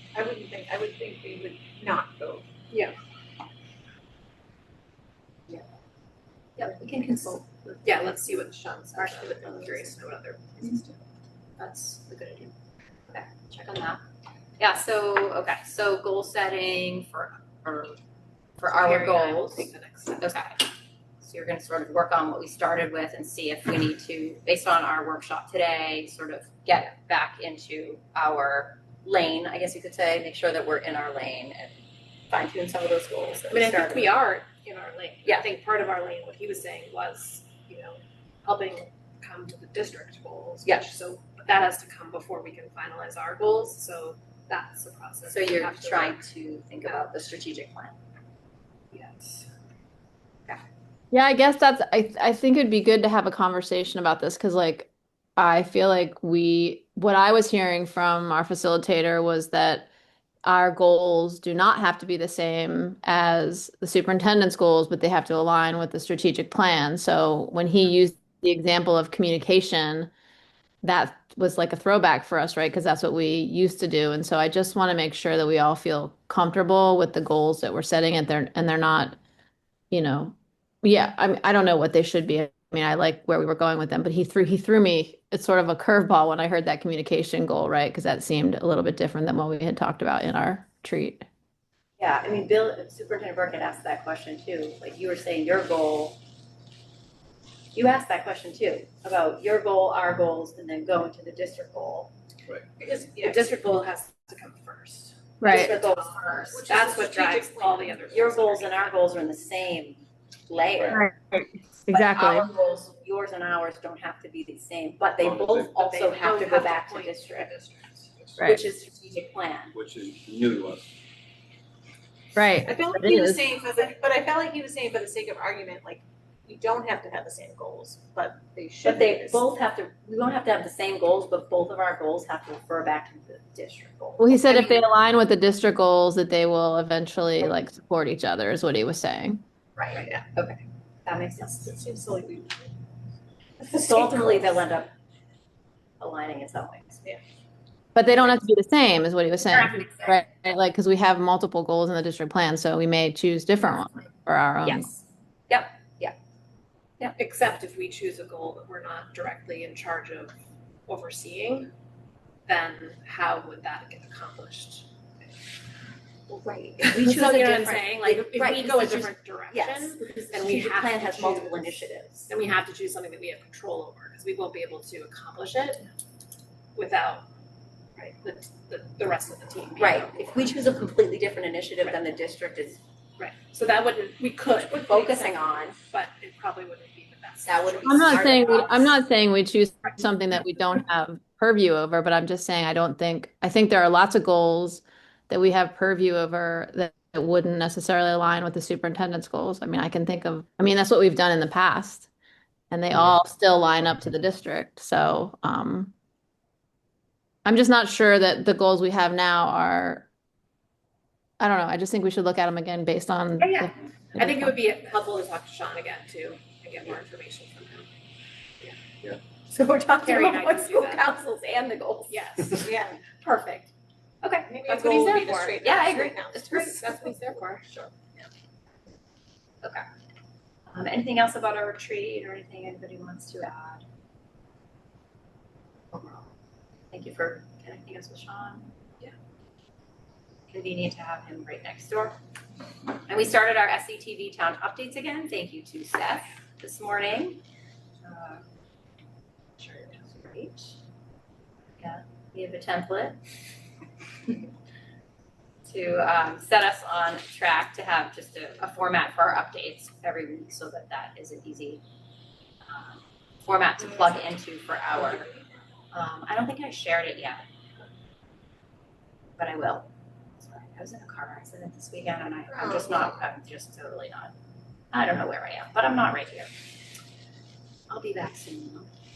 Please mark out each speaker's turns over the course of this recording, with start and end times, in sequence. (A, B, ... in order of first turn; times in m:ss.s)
0:00.1-0:02.5 A
0:06.6-0:07.8 B
0:07.8-0:11.0 C
0:09.0-0:10.0 B
0:11.6-0:12.0 C
0:11.6-0:12.5 B
0:13.1-0:14.0 B
0:14.6-0:18.0 B
0:18.6-0:20.7 B
0:18.6-0:20.4 C
0:21.2-0:34.2 B
0:33.5-0:46.2 C
0:40.6-0:41.0 B
0:45.3-0:48.0 B
0:46.8-0:47.1 C
0:48.9-0:49.5 C
0:51.1-0:59.9 D
1:00.4-1:10.1 D
1:10.8-1:19.2 D
1:19.9-1:31.3 D
1:32.0-1:36.2 B
1:37.7-1:42.1 B
1:42.8-1:43.5 A
1:43.1-1:49.0 C
1:45.4-1:45.7 D
1:45.4-1:51.0 B
1:46.5-1:48.0 A
1:50.9-1:52.5 D
1:51.9-1:57.5 B
1:55.2-1:55.9 E
1:55.9-1:58.2 C
1:58.4-1:59.7 B
1:59.7-2:00.9 E
2:02.4-2:03.4 D
2:02.6-2:09.4 A
2:08.8-2:14.9 B
2:14.2-2:19.4 D
2:19.8-2:21.7 B
2:21.6-2:22.7 A
2:23.6-2:24.6 A
2:23.6-2:24.9 B
2:26.0-2:27.1 B
2:28.0-2:34.9 D
2:29.6-2:30.1 B
2:34.6-2:36.2 B
2:37.2-2:40.3 C
2:40.9-2:41.7 C
2:42.5-2:44.9 C
2:46.3-2:52.3 B
2:46.8-2:51.8 C
2:52.3-2:55.8 C
2:56.8-2:57.3 C
2:58.0-3:00.1 C
2:59.8-3:02.8 B
3:03.2-3:08.3 C
3:04.7-3:05.8 B
3:07.4-3:09.0 B
3:07.8-3:22.1 D
3:22.7-3:25.9 D
3:27.4-3:30.1 D
3:31.4-3:34.5 D
3:33.4-3:37.9 C
3:39.5-3:42.2 B
3:40.0-3:41.1 C
3:42.1-3:42.6 C
3:42.5-3:43.0 A
3:43.0-3:48.3 B
3:44.5-3:46.6 A
3:44.7-3:45.5 C
3:46.5-3:47.7 C
3:50.7-3:53.8 B
3:55.9-3:56.3 B
3:56.9-3:58.7 B
4:00.5-4:02.2 B
4:03.1-4:07.4 B
4:08.0-4:08.4 B
4:09.6-4:10.8 B
4:11.8-4:13.2 B
4:15.7-4:21.8 B
4:22.7-4:25.3 B
4:25.9-4:27.4 B
4:29.4-4:34.3 B
4:34.9-4:36.5 B
4:37.9-4:38.9 B